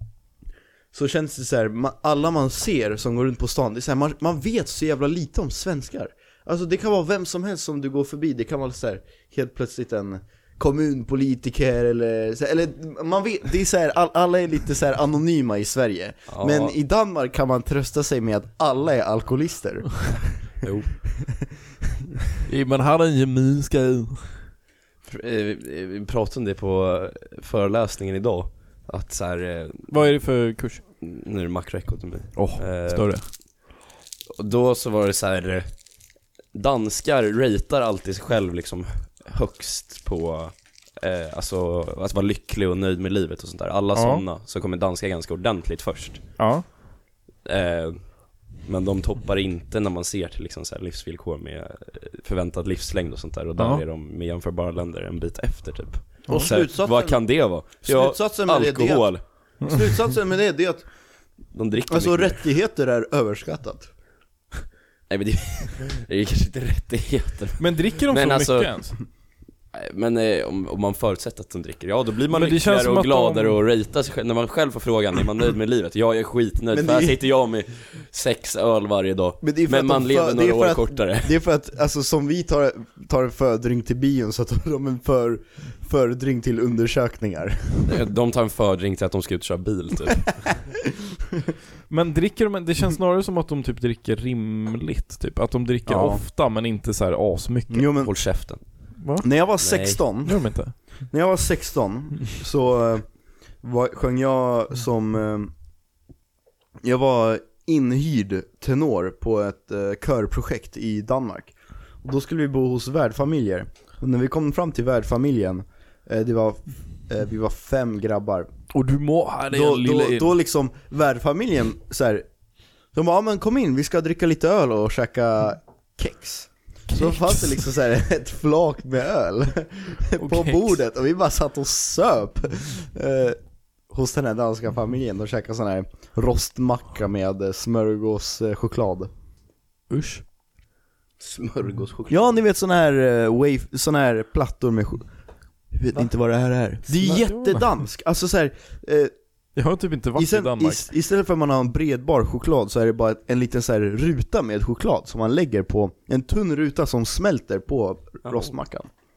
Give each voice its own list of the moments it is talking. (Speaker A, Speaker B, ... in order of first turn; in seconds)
Speaker A: 0.9-20.4, 56.3-60.9, 61.9-63.9, 76.7-77.2, 79.4-88.0, 95.9-96.2, 97.7-98.1, 99.2-100.5, 101.1-103.1, 103.6-105.5, 106.8-118.5, 119.5-122.3, 122.9-139.1, 142.1-145.1, 145.7-149.1, 150.2-158.9
Speaker B: 16.3-16.8, 20.6-21.0, 25.1-30.0, 31.0-33.7, 34.3-46.4, 47.5-59.2, 61.5-62.4, 65.1-69.1, 69.7-81.3, 87.9-90.6, 98.0-98.6, 99.6-100.0, 141.2-142.4, 158.2-158.5
Speaker C: 22.5-24.5, 29.9-30.8, 32.4-33.3, 44.0-44.2, 46.4-46.6, 53.6-53.8, 67.6-69.0, 72.3-73.6, 91.9-97.9, 99.0-99.3, 100.2-100.8, 118.7-120.3, 126.9-127.5, 130.2-130.8, 139.9-140.2, 146.9-147.7, 149.6-150.9